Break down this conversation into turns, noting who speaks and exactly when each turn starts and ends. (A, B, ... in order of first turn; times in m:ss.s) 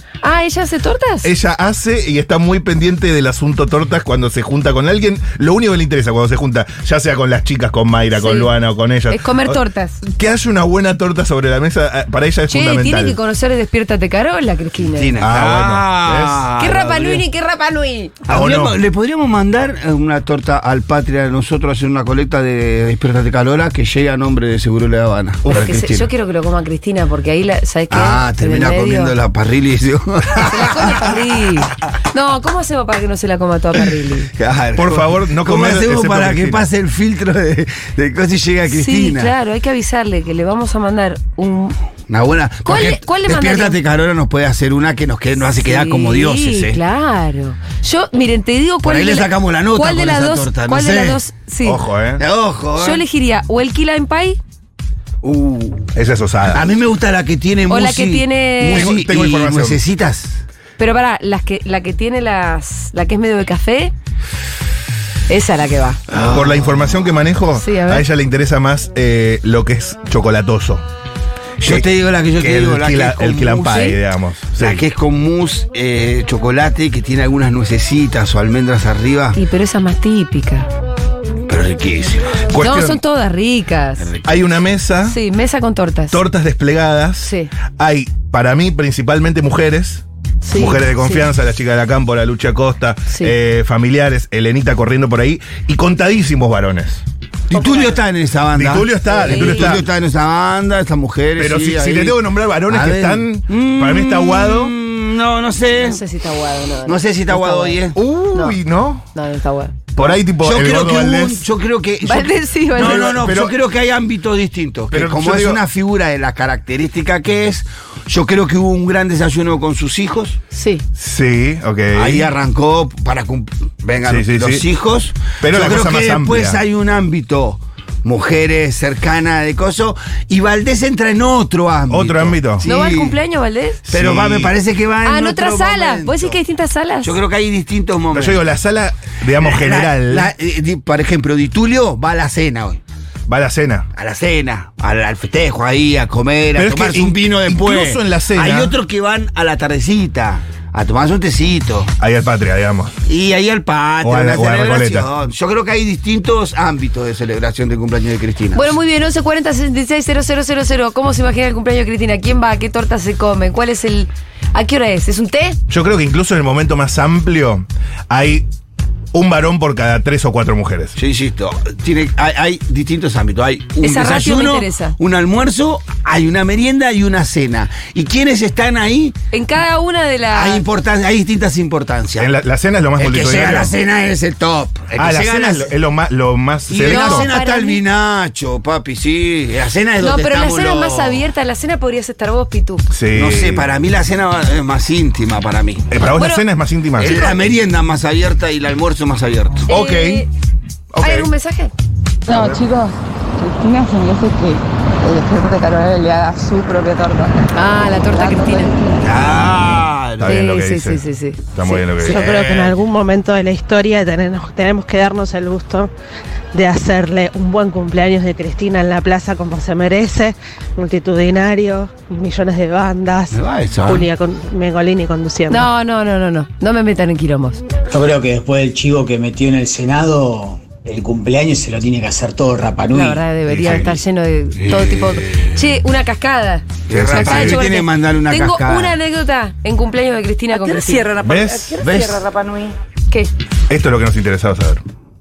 0:00.2-0:01.3 A
0:01.2-0:13.2 B
0:08.1-0:08.5 A
0:09.1-0:10.0 A
0:12.5-0:15.2 A
0:14.9-0:17.2 C
0:15.2-0:16.5 B
0:16.6-0:18.2 A
0:18.3-0:18.8 B
0:18.3-0:26.1 C
0:25.4-0:25.8 B
0:25.4-0:29.2 A
0:27.9-0:31.1 C
0:30.4-0:34.3 A
0:34.4-0:39.3 C
0:34.7-0:36.6 B
0:38.7-0:41.8 A
0:42.1-0:46.8 C
0:42.6-0:43.8 A
0:45.6-0:51.8 A
0:48.8-0:51.2 C
0:51.6-0:52.2 B
0:52.2-0:53.0 C
0:52.7-0:54.4 A
0:55.2-0:55.9 C
0:55.9-0:56.7 B
0:56.4-1:00.4 C
0:57.7-0:58.9 A
0:58.7-0:59.8 B
1:00.8-1:03.9 A
1:05.3-1:06.0 A
1:06.1-1:07.1 C
1:06.3-1:10.8 B
1:07.5-1:08.0 A
1:11.6-1:14.0 C
1:12.4-1:14.8 B
1:14.6-1:19.4 C
1:19.3-1:20.7 A
1:21.5-1:22.4 C
1:22.5-1:23.0 B
1:22.6-1:24.1 A
1:24.0-1:24.4 C
1:24.2-1:25.2 B
1:25.0-1:26.2 A
1:26.1-1:37.0 B
1:27.2-1:27.5 A
1:30.4-1:31.3 A
1:33.1-1:33.3 A
1:37.5-1:46.0 C
1:37.5-1:37.9 A
1:38.5-1:39.8 B
1:39.1-1:39.8 A
1:41.4-1:44.7 B
1:45.7-1:47.8 A
1:46.8-1:48.0 C
1:47.9-1:49.1 B
1:48.3-1:48.6 A
1:49.1-1:49.7 A
1:49.9-1:51.4 B
1:50.0-2:00.4 C
1:52.0-1:53.2 A
1:52.8-1:53.5 B
1:54.9-1:55.6 B
2:00.5-2:00.8 A
2:01.0-2:02.3 B
2:01.9-2:13.2 C
2:04.0-2:04.6 B
2:05.4-2:06.6 B
2:11.9-2:12.7 B
2:12.6-2:13.8 A
2:13.9-2:14.5 B
2:13.9-2:16.4 C
2:15.0-2:17.2 A
2:17.0-2:18.4 C
2:18.1-2:20.3 B
2:19.4-2:22.8 C
2:23.3-2:23.9 B
2:24.0-2:31.9 C
2:26.6-2:28.8 B
2:32.0-2:33.0 B
2:33.0-2:38.8 C
2:34.0-2:35.1 B
2:38.5-2:45.6 A
2:45.7-2:48.4 B
2:49.1-2:51.0 B
2:51.0-2:59.1 C
2:53.8-2:55.0 A
2:59.3-3:00.6 A
3:00.3-3:02.3 C
3:02.2-3:03.7 B
3:03.0-3:05.7 C
3:05.0-3:07.3 B
3:06.7-3:11.3 C
3:06.8-3:07.8 A
3:10.0-3:12.8 A
3:12.9-3:13.7 B
3:13.1-3:15.9 C
3:15.9-3:17.2 B
3:16.1-3:16.4 A
3:17.0-3:19.7 C
3:17.0-3:17.4 A
3:19.7-3:20.3 B
3:19.7-3:20.3 A
3:20.9-3:21.3 B
3:21.0-3:21.7 A
3:22.3-3:27.5 D
3:22.3-3:22.6 B
3:27.5-3:28.9 A
3:28.1-3:29.1 D
3:29.0-3:30.4 C
3:30.2-3:32.7 B
3:30.2-3:32.2 A
3:32.0-3:35.9 E
3:36.5-3:45.7 E
3:43.3-3:44.1 C
3:45.5-3:47.6 A
3:47.9-3:53.2 F
3:52.9-4:01.1 A
3:53.5-3:53.9 B
3:54.6-3:55.5 C
3:56.9-3:57.7 B
3:56.9-3:59.0 C
4:00.6-4:02.5 D
4:01.2-4:01.8 B
4:01.7-4:02.5 C
4:03.7-4:04.8 B